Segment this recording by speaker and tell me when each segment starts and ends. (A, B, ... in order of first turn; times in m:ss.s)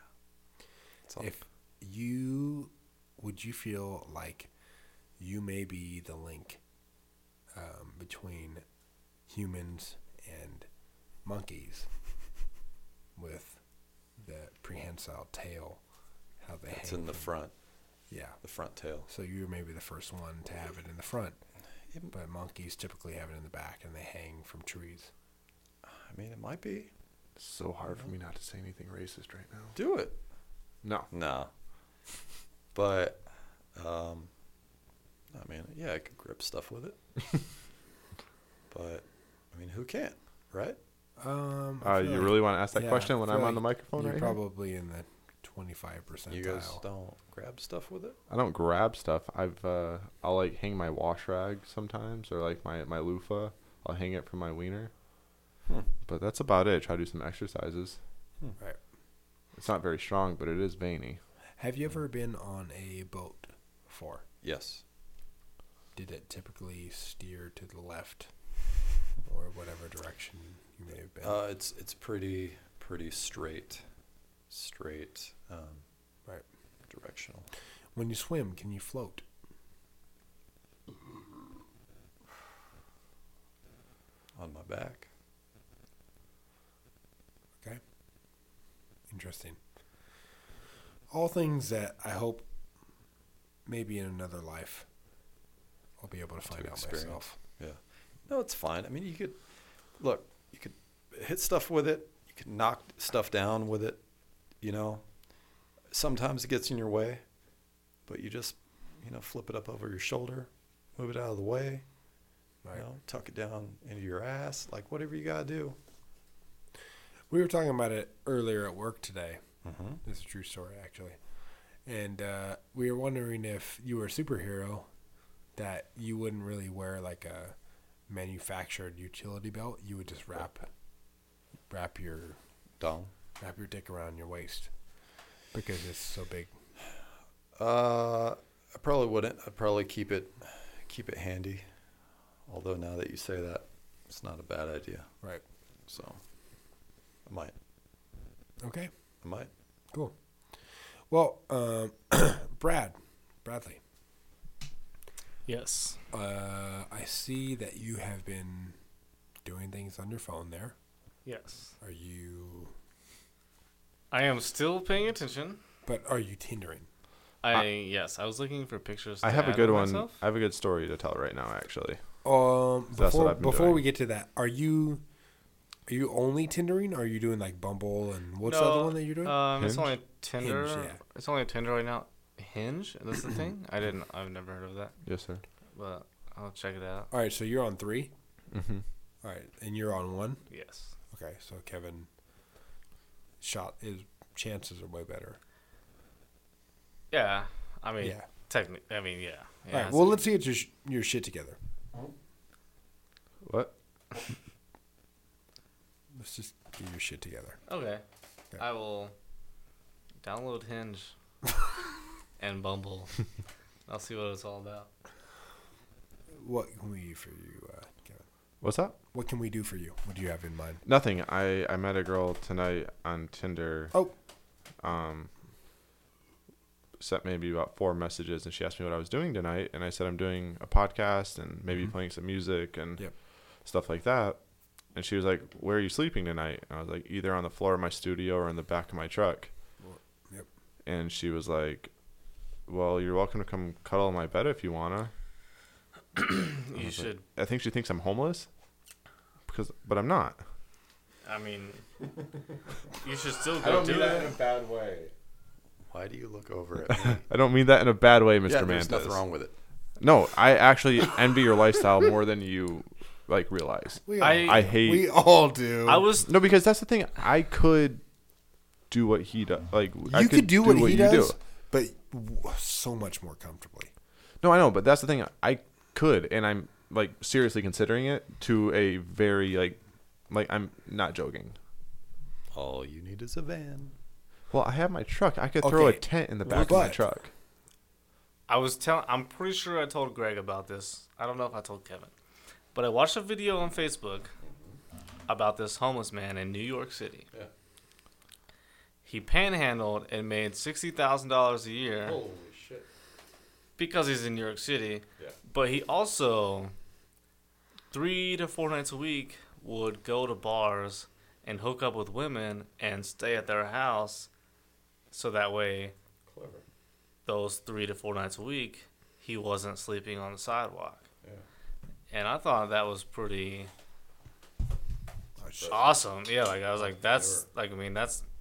0:01.2-0:04.5 A
0:05.2-0:06.6 A
0:07.5-0:08.6 A
0:09.3-0:10.7 A
0:11.2-0:11.9 A
0:13.2-0:13.6 A
0:14.2-0:15.8 A
0:16.4-0:17.3 A
0:16.7-0:17.5 B
0:18.1-0:18.4 A
0:18.4-0:19.1 B
0:19.1-0:21.4 A
0:22.1-0:25.1 A
0:25.8-0:26.9 B
0:27.4-0:29.8 C
0:29.8-0:30.2 B
0:30.8-0:31.1 C
0:31.1-0:31.5 B
0:32.7-0:34.3 B
0:35.3-0:37.0 B
0:38.7-0:40.8 B
0:41.2-0:46.8 A
0:41.8-0:44.4 C
0:46.3-0:48.2 B
0:48.3-0:54.9 C
0:56.1-0:58.0 C
0:59.6-1:01.2 C
1:01.6-1:04.2 A
1:04.4-1:04.8 B
1:06.0-1:08.3 A
1:09.2-1:11.4 A
1:11.2-1:13.8 B
1:14.5-1:15.8 B
1:16.9-1:17.5 B
1:18.0-1:19.2 A
1:24.4-1:25.1 B
1:29.1-1:29.6 A
1:31.1-1:32.5 A
1:33.7-1:34.9 A
1:36.0-1:37.3 A
1:36.5-1:39.4 B
1:40.0-1:44.0 B
1:44.6-1:45.1 B
1:45.9-1:47.2 B
1:48.1-1:51.8 B
1:52.7-1:55.8 B
1:57.3-1:59.4 A
1:59.6-2:00.0 B
2:00.0-2:01.2 A
2:01.8-2:04.9 A
2:05.6-2:07.6 A
2:08.1-2:10.7 A
2:11.7-2:12.4 A
2:12.8-2:13.1 B
2:13.4-2:14.7 A
2:15.5-2:16.5 A
2:17.6-2:21.7 B
2:22.5-2:25.1 B
2:25.9-2:26.2 B
2:27.3-2:27.5 B
2:28.6-2:28.9 A
2:29.2-2:29.5 B
2:31.1-2:33.8 A
2:35.5-2:36.0 D
2:36.1-2:38.8 A
2:39.4-2:40.8 A
2:41.2-2:41.7 D
2:41.8-2:42.7 A
2:44.1-2:45.6 D
2:45.8-2:46.9 A
2:47.4-2:50.2 D
2:49.2-2:52.0 C
2:52.2-2:55.0 A
2:52.9-2:53.8 C
2:55.9-2:59.5 A
2:58.4-3:05.0 D
2:59.6-3:00.0 C
3:00.4-3:01.0 A
3:05.0-3:05.4 C
3:05.8-3:07.1 D
3:07.1-3:08.1 A
3:08.5-3:08.8 C
3:09.2-3:10.4 A
3:10.5-3:10.9 D
3:11.1-3:12.1 A
3:13.4-3:15.4 A
3:17.1-3:20.2 D
3:18.0-3:18.3 A
3:19.7-3:21.6 A
3:23.4-3:23.7 C
3:26.2-3:27.6 A
3:27.7-3:28.0 D
3:28.6-3:29.1 D
3:30.2-3:31.1 D
3:32.4-3:33.1 D
3:33.9-3:34.9 D
3:36.4-3:38.2 A
3:38.6-3:39.0 C
3:39.1-3:40.8 A
3:40.9-3:44.0 C
3:44.8-3:45.3 C
3:47.0-3:53.1 C
3:53.6-3:54.4 C
3:55.0-3:59.5 C
3:59.8-4:00.5 A
4:00.9-4:01.9 C
4:02.7-4:05.1 C
4:06.2-4:07.2 D
4:06.7-4:08.5 C
4:09.5-4:10.4 C
4:11.2-4:11.8 D
4:13.0-4:14.4 D
4:13.6-4:15.1 C
4:15.9-4:17.2 B
4:16.9-4:19.2 C
4:18.5-4:19.5 B
4:20.0-4:25.1 C
4:24.1-4:26.1 A
4:24.2-4:24.7 D
4:25.9-4:26.3 D
4:26.2-4:28.0 C
4:28.9-4:31.4 C
4:30.1-4:33.9 A
4:34.4-4:39.8 C
4:40.3-4:41.6 C
4:42.5-4:44.0 B
4:44.5-4:47.3 C
4:45.6-4:47.0 A
4:48.5-4:52.1 D
4:52.7-4:54.3 D
4:54.4-4:54.8 B
4:55.3-4:57.3 D
4:59.0-5:02.2 D
5:02.0-5:02.9 B
5:03.8-5:06.7 D
5:07.9-5:14.3 D
5:15.1-5:15.9 D
5:16.3-5:16.6 B
5:17.3-5:21.1 D
5:22.1-5:23.7 D
5:25.4-5:25.8 A
5:25.6-5:26.0 B
5:25.6-5:28.2 D
5:26.8-5:27.5 B